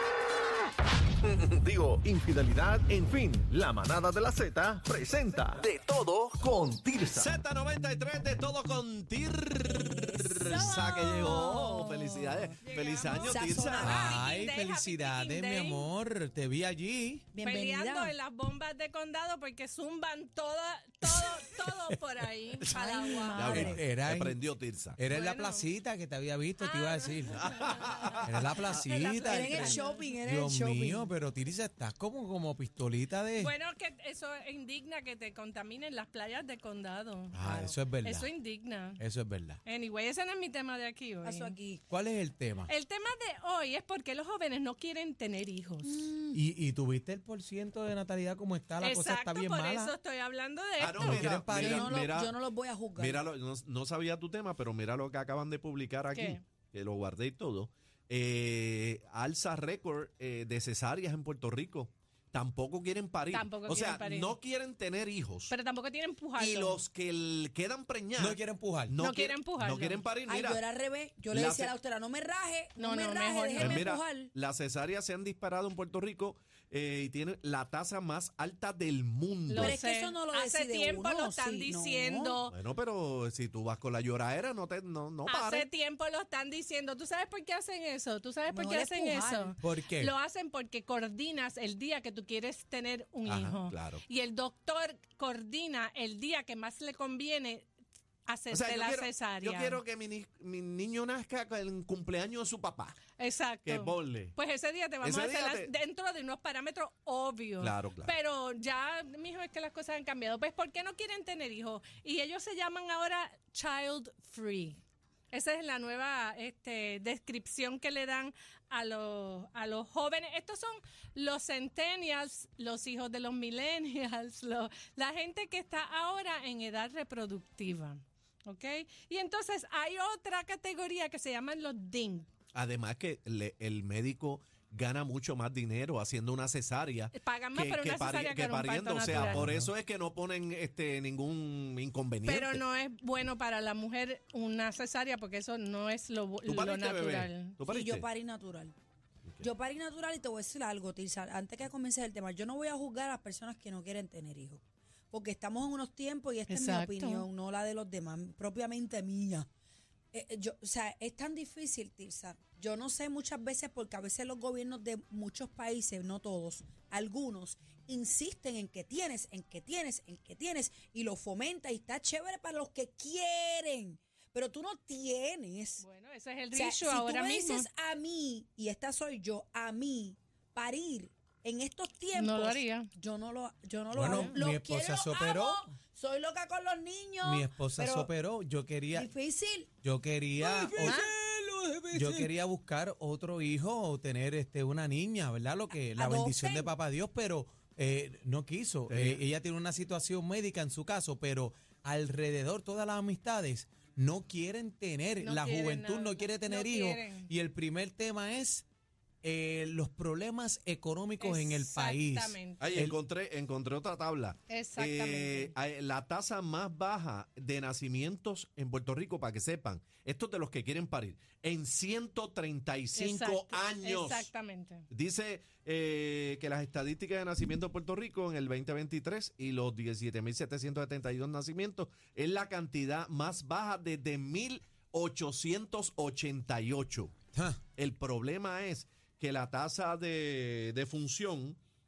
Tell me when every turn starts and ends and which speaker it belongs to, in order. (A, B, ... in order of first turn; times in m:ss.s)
0:01.2-0:07.4 A
0:07.1-0:14.2 B
0:09.6-0:10.7 C
0:10.4-0:11.9 D
0:11.5-0:12.6 C
0:12.6-0:15.9 D
0:13.2-0:14.2 C
0:13.8-0:17.3 E
0:17.3-0:18.2 C
0:17.4-0:23.8 D
0:22.6-0:25.0 B
0:23.0-0:23.5 C
0:23.4-0:24.4 E
0:25.0-0:27.4 E
0:25.1-0:25.7 D
0:26.6-0:30.1 D
0:27.4-0:28.9 B
0:28.2-0:33.5 E
0:29.3-0:31.1 C
0:33.4-0:39.0 D
0:37.3-0:38.3 E
0:39.0-0:39.6 E
0:39.6-0:41.5 D
0:41.2-0:41.8 C
0:41.9-0:42.7 E
0:42.7-0:46.0 D
0:45.8-0:46.4 C
0:46.3-0:49.9 E
0:48.8-0:51.3 D
0:50.8-0:52.4 B
0:51.0-0:52.0 E
0:51.2-0:53.2 C
0:53.0-1:05.5 B
0:56.1-0:56.4 D
1:03.3-1:04.4 D
1:05.5-1:06.8 D
1:06.4-1:08.4 B
1:08.2-1:09.0 E
1:08.9-1:10.7 B
1:09.0-1:10.1 D
1:10.2-1:14.3 C
1:11.3-1:11.8 B
1:12.8-1:13.9 D
1:13.6-1:19.8 B
1:19.5-1:22.6 D
1:19.6-1:22.4 C
1:22.5-1:25.7 B
1:25.2-1:37.7 D
1:28.5-1:29.6 C
1:29.6-1:30.1 E
1:33.2-1:34.0 B
1:38.2-1:39.8 D
1:38.5-1:43.0 B
1:43.2-2:12.3 D
1:43.6-1:44.3 B
1:45.0-1:45.7 B
1:47.6-1:48.2 B
2:12.5-2:22.6 B
2:17.1-2:19.5 D
2:19.1-2:19.7 E
2:22.2-2:27.6 D
2:26.5-2:28.1 B
2:27.6-2:28.7 C
2:29.4-2:39.5 C
2:36.5-2:37.2 D
2:40.1-2:55.8 C
2:55.8-2:57.7 D
2:56.5-3:08.1 C
3:02.1-3:02.9 D
3:03.9-3:05.7 E
3:04.1-3:04.4 D
3:07.2-3:09.1 E
3:08.9-3:09.7 C
3:09.8-3:11.1 E
3:10.4-3:12.3 C
3:10.8-3:11.1 D
3:11.9-3:28.6 E
3:15.9-3:16.7 C
3:18.9-3:19.2 B
3:25.2-3:27.3 D
3:29.2-3:33.0 E
3:31.2-3:32.7 D
3:32.6-3:44.3 B
3:34.5-3:35.5 D
3:42.9-3:44.9 D
3:44.9-3:57.1 B
3:57.4-3:57.6 E
3:57.8-4:01.6 B